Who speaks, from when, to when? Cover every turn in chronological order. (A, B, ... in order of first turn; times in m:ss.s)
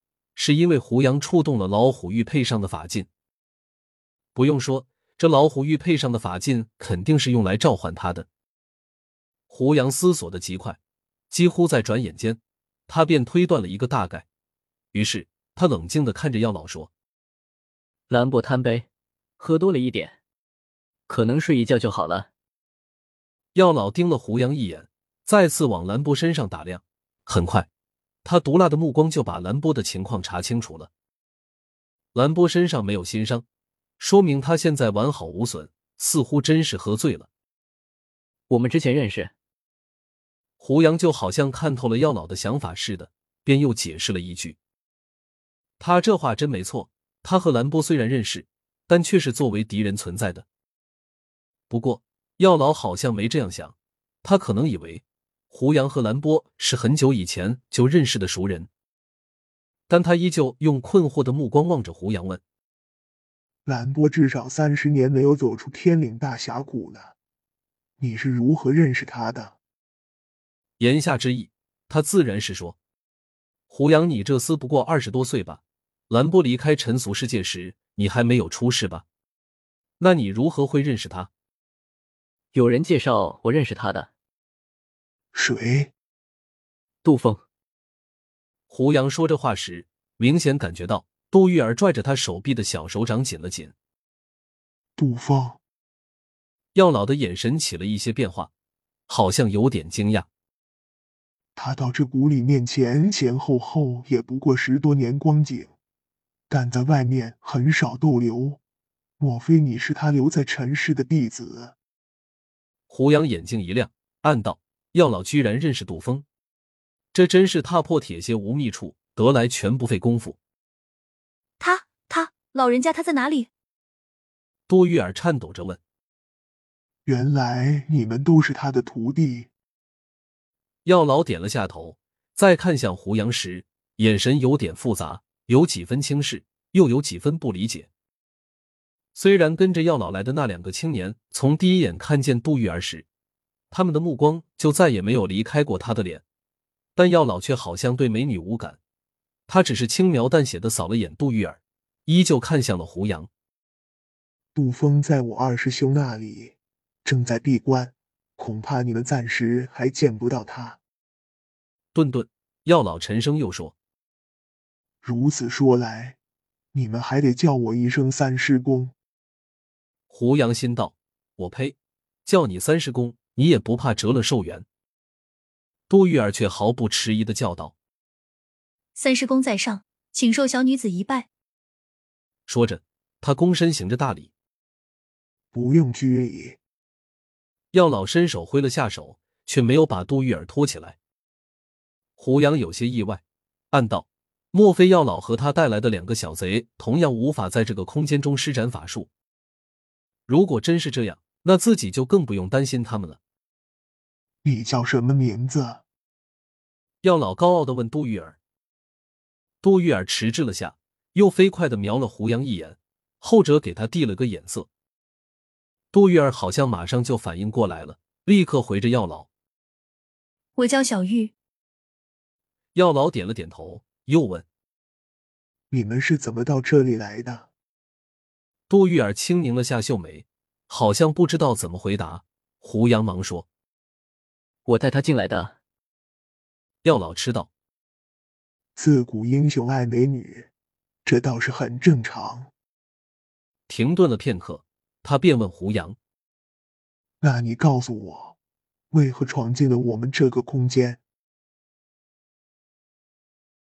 0:00.4-0:03.1 A
0:04.4-0:08.3 A
0:09.5-0:10.8 A
0:11.3-0:14.3 A
0:14.9-0:16.9 A
0:18.1-0:18.9 B
0:19.4-0:20.2 B
0:21.1-0:22.3 B
0:23.6-0:27.7 A
0:28.2-0:30.9 A
0:32.1-0:33.4 A
0:34.0-0:37.3 A
0:38.5-0:39.3 B
0:40.6-0:44.6 A
0:45.8-0:50.4 A
0:51.7-0:58.7 A
0:59.9-1:02.4 A
1:03.6-1:07.1 C
1:08.0-1:09.6 C
1:10.8-1:12.8 A
1:13.7-1:19.0 A
1:20.0-1:21.3 A
1:22.5-1:24.1 B
1:25.3-1:25.9 C
1:27.0-1:27.4 B
1:28.7-1:33.7 A
1:35.0-1:35.6 C
1:36.7-1:38.5 A
1:39.1-1:40.3 A
1:41.6-1:45.7 C
1:46.5-1:48.6 C
1:49.2-1:51.8 C
1:52.9-1:56.2 A
1:57.1-2:00.4 A
2:01.6-2:03.5 D
2:04.7-2:05.8 A
2:07.1-2:09.5 C
2:10.8-2:17.9 A
2:19.2-2:23.1 A
2:23.7-2:26.2 A
2:27.0-2:28.8 A
2:29.5-2:33.3 A
2:34.6-2:40.8 C
2:41.9-2:43.8 A
2:45.0-2:46.2 C
2:46.7-2:48.9 C
2:50.1-2:54.6 A
2:55.9-2:57.7 A
2:59.0-3:01.3 D
3:02.5-3:04.3 A
3:05.5-3:06.6 C
3:07.7-3:11.0 A
3:12.2-3:19.1 A
3:20.3-3:23.2 A
3:24.4-3:25.8 C
3:27.0-3:28.4 A
3:29.6-3:34.7 A
3:35.9-3:39.3 A
3:40.6-3:41.3 D
3:42.8-3:44.4 A
3:45.7-3:47.5 C
3:48.7-3:53.5 A
3:54.7-3:55.6 B
3:56.8-3:57.5 A
3:58.8-4:00.5 C
4:01.0-4:02.5 C
4:03.7-4:06.0 A
4:07.2-4:08.4 C
4:08.9-4:11.0 C